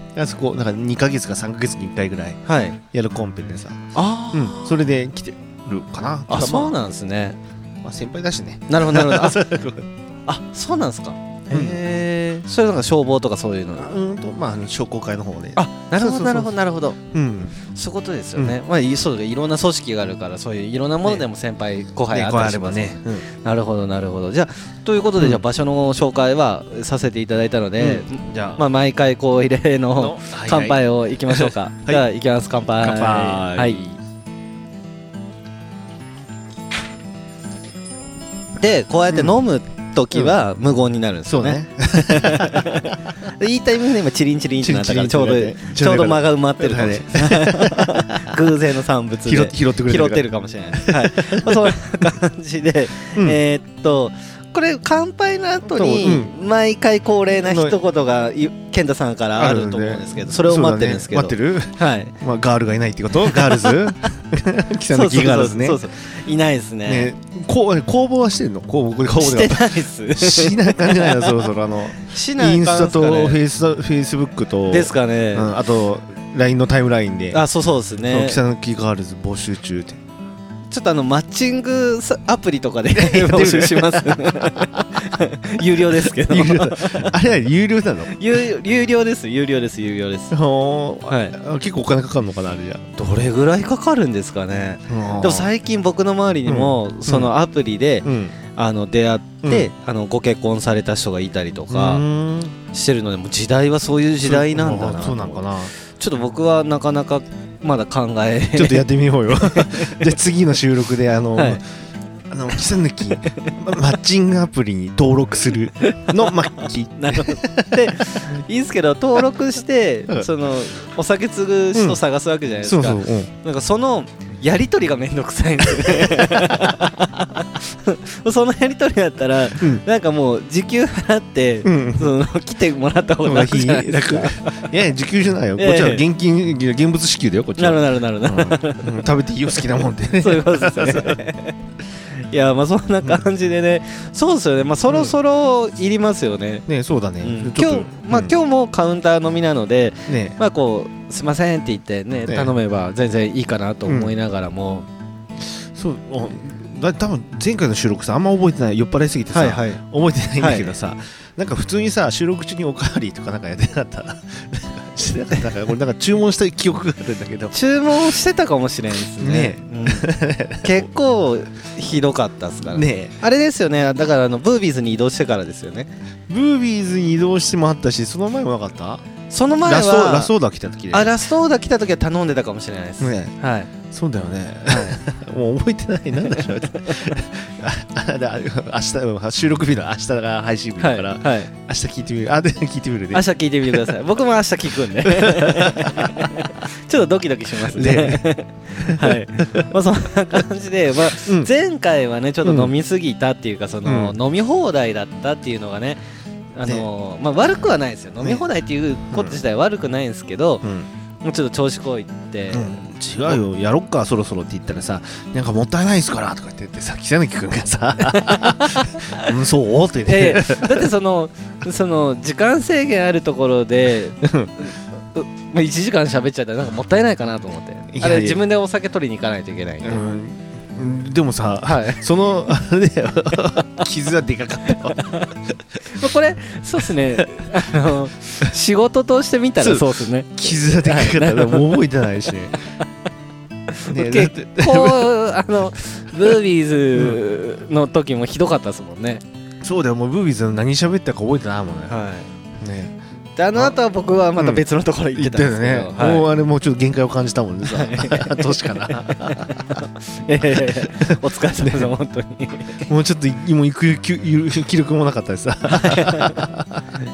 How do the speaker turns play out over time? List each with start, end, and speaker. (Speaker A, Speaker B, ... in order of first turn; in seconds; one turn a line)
Speaker A: 0.1-6.8
Speaker B: 2.5-2.8
Speaker B: 3.9-4.8
Speaker B: 6.3-7.4
Speaker A: 7.8-9.9
Speaker B: 8.7-9.4
Speaker B: 10.2-13.9
Speaker A: 11.5-11.8
Speaker A: 13.8-17.6
Speaker B: 15.6-17.0
Speaker B: 17.6-33.8
Speaker A: 22.1-23.2
Speaker A: 27.8-28.6
Speaker A: 29.9-32.0
Speaker A: 32.8-34.0
Speaker B: 38.6-62.1
Speaker A: 41.3-42.7
Speaker A: 44.6-48.4
Speaker A: 49.2-51.7
Speaker A: 55.7-56.3
Speaker A: 57.4-57.8
Speaker A: 59.4-65.8
Speaker B: 63.2-64.1
Speaker B: 64.9-67.1
Speaker A: 66.8-77.4
Speaker B: 69.2-71.5
Speaker B: 72.0-73.4
Speaker B: 74.7-75.5
Speaker B: 77.3-78.4
Speaker A: 78.1-80.0
Speaker B: 80.7-87.1
Speaker A: 82.9-84.8
Speaker A: 85.9-88.1
Speaker B: 88.1-90.3
Speaker A: 90.3-93.0
Speaker B: 91.1-91.3
Speaker B: 93.0-102.0
Speaker A: 94.9-95.5
Speaker A: 96.5-97.3
Speaker A: 98.0-98.3
Speaker A: 99.4-99.7
Speaker A: 101.7-102.5
Speaker B: 102.7-110.0
Speaker A: 104.2-105.7
Speaker A: 108.5-111.6
Speaker B: 111.3-111.6
Speaker A: 112.3-118.0
Speaker B: 113.3-113.6
Speaker B: 115.8-134.7
Speaker A: 121.7-122.0
Speaker A: 122.6-123.3
Speaker A: 125.6-126.6
Speaker A: 129.6-129.8
Speaker A: 131.6-132.2
Speaker A: 133.2-141.2
Speaker B: 135.6-136.0
Speaker B: 137.6-139.0
Speaker B: 140.2-141.6
Speaker B: 142.1-146.7
Speaker A: 144.9-145.2
Speaker A: 146.7-148.3
Speaker B: 147.2-154.8
Speaker A: 150.1-150.4
Speaker A: 152.2-152.5
Speaker A: 153.8-154.1
Speaker A: 155.5-167.5
Speaker B: 159.3-159.8
Speaker B: 160.4-160.7
Speaker B: 167.5-170.1
Speaker A: 169.2-170.8
Speaker B: 170.6-175.9
Speaker A: 172.6-173.2
Speaker A: 176.3-179.0
Speaker B: 179.3-180.3
Speaker A: 179.6-181.1
Speaker B: 180.9-183.7
Speaker A: 183.0-193.9
Speaker B: 184.7-185.0
Speaker B: 190.8-191.5
Speaker B: 193.1-206.0
Speaker A: 195.0-196.3
Speaker A: 197.6-198.2
Speaker A: 198.8-199.7
Speaker A: 202.4-202.7
Speaker A: 203.8-204.2
Speaker B: 206.5-210.7
Speaker A: 209.1-209.4
Speaker B: 211.2-213.4
Speaker A: 212.5-220.9
Speaker B: 218.1-219.3
Speaker B: 220.1-230.1
Speaker A: 224.2-224.5
Speaker A: 227.9-228.4
Speaker A: 229.8-235.8
Speaker B: 231.6-232.0
Speaker B: 235.0-235.3
Speaker B: 235.8-241.9
Speaker A: 239.6-242.6
Speaker B: 243.7-249.2
Speaker A: 243.8-245.1
Speaker A: 246.9-247.2
Speaker A: 249.6-251.9
Speaker B: 251.9-252.3
Speaker A: 252.6-252.9
Speaker B: 253.4-256.3
Speaker A: 254.4-254.6
Speaker A: 255.1-259.8
Speaker B: 257.6-262.9
Speaker A: 260.6-261.9
Speaker A: 262.9-266.9
Speaker B: 265.7-266.5